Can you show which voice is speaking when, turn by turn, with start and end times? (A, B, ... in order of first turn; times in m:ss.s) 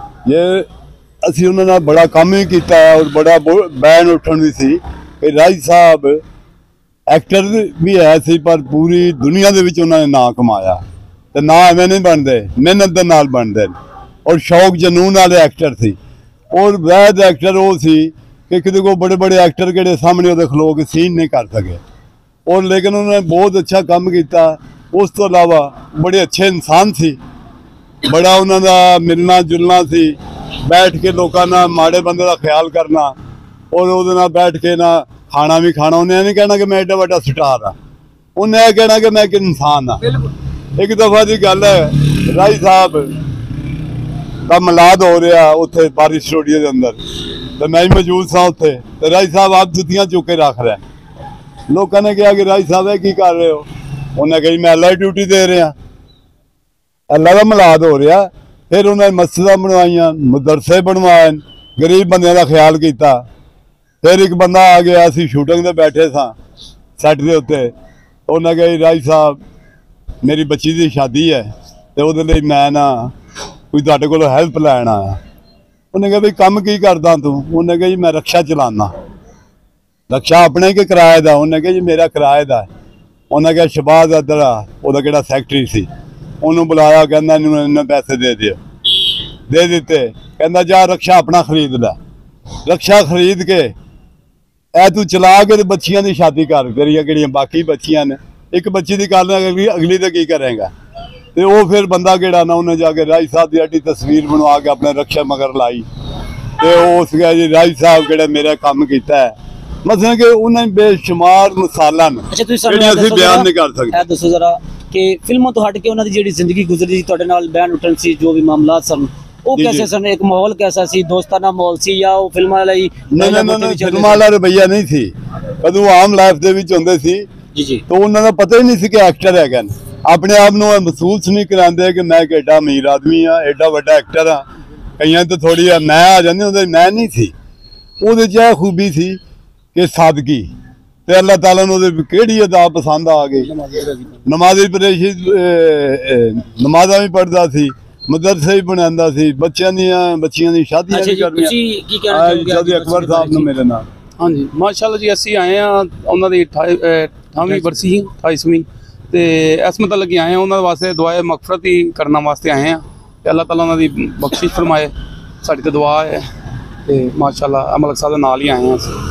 0:00.2-0:00.7 A
0:01.2-0:06.2 A
0:07.1-0:10.8 A
0:11.3-0:13.7 A
0:14.2-0:16.0 A
0:16.5-0:21.8 A
0:22.4-0:27.2 A
0:28.0-0:30.1 A
0:30.6-0:33.1 A
0:33.7-0:37.7 A
0:38.4-0:40.2 A
0:40.8-0:43.2 A
0:44.4-0:47.0 A
0:47.6-0:50.8 A
0:51.7-0:55.7 A
0:57.1-1:03.2 A
1:04.0-1:06.3 A
1:07.0-1:07.7 A
1:08.3-1:09.4 A
1:10.2-1:13.1 A
1:13.7-1:15.2 A
1:15.9-1:18.9 A
1:20.1-1:22.7 A
1:23.3-1:25.9 A
1:26.4-1:28.6 A
1:29.5-1:32.0 A
1:32.6-1:33.7 A
1:34.8-1:40.7 A
1:41.3-1:45.8 A
1:46.6-1:54.0 A
1:52.3-2:04.2 B
1:59.6-1:59.9 A
2:03.1-2:05.1 A
2:05.6-2:07.2 A
2:07.5-2:07.8 B
2:07.9-2:14.4 A
2:15.0-2:17.3 A
2:18.0-2:19.2 A
2:19.7-2:20.5 A
2:21.1-2:23.5 A
2:23.6-2:24.1 C
2:24.2-2:31.5 A
2:30.9-2:33.5 B
2:32.1-2:33.8 A
2:34.2-2:46.2 C
2:46.8-2:49.0 C